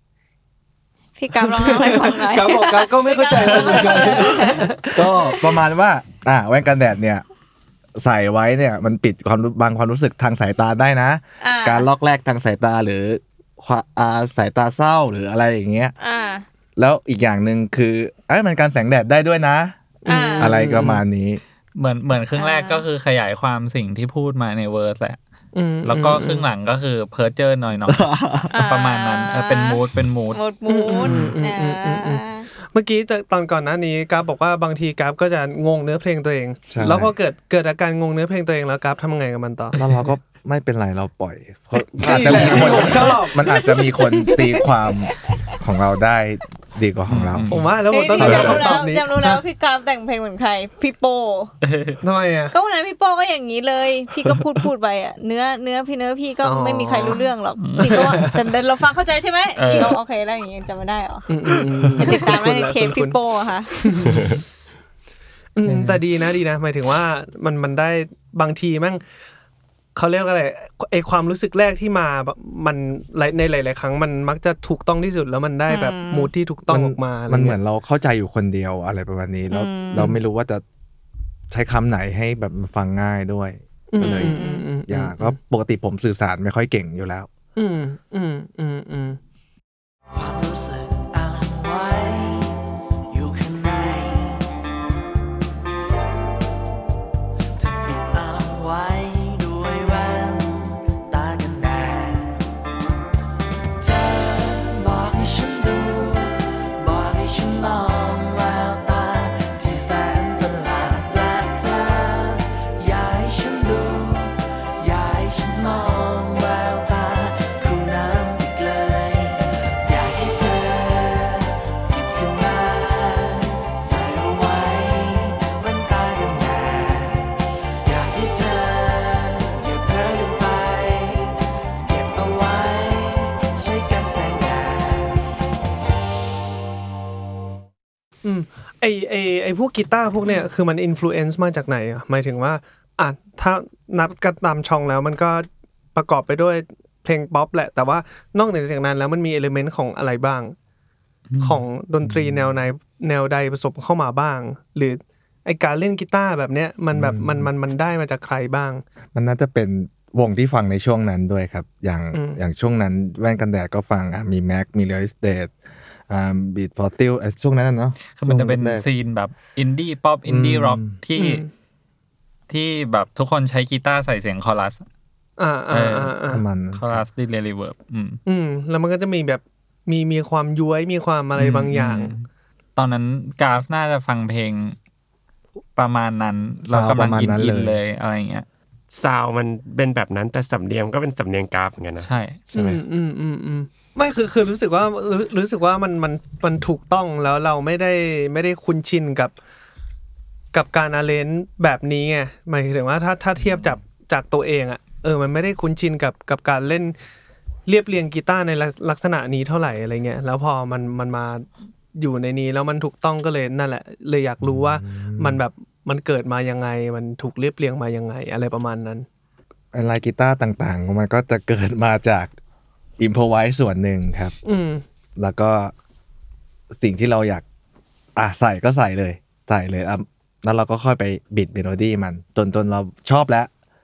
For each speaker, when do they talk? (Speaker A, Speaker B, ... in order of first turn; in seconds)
Speaker A: 1.2-4.7, 5.2-5.5, 11.4-11.9, 16.0-16.4, 20.1-20.6, 22.4-22.9, 28.5-29.8, 30.3-32.5, 42.2-42.8, 45.3-45.5, 47.9-51.5, 52.5-64.0, 75.7-76.3, 79.5-80.1, 84.0-84.7
Speaker B: 1.4-5.1, 20.1-21.0, 25.5-26.5, 30.7-40.1, 42.0-44.5, 47.5-49.4, 52.0-52.5, 56.4-58.5, 61.3-63.2, 63.8-64.4, 65.6-69.0, 70.0-77.6, 83.9-85.4, 87.6-89.2, 138.2-150.6, 151.4-158.8, 162.1-162.4, 171.2-171.5, 175.4-176.4, 178.3-182.1, 192.5-199.4, 200.5-207.0, 207.7-219.1, 224.4-224.8
Speaker C: 4.4-7.2, 8.0-15.9, 16.8-19.8, 20.4-21.4, 27.9-28.5, 31.0-31.4, 36.7-37.1, 39.8-47.6, 48.1-48.8, 76.7-80.6, 81.5-87.3, 152.0-152.6, 156.9-157.5, 159.2-165.5, 166.1-168.8, 170.3-171.0, 176.2-177.0, 186.7-187.8, 214.4-215.4, 219.7-222.3, 223.0-224.3, 225.2-225.7, 226.7-227.4, 228.2-233.5
Speaker D: 21.8-25.2, 25.8-30.4, 47.1-47.7, 51.6-52.0, 57.6-58.4, 59.6-60.0, 65.7-66.0, 151.3-151.6, 168.1-171.4, 172.5-174.8, 175.7-176.1, 176.7-178.2, 181.4-184.8, 185.8-188.5, 192.0-192.4
Speaker E: 64.1-64.4, 188.9-192.8
Speaker F: 90.1-94.5, 97.6-102.5, 103.8-135.3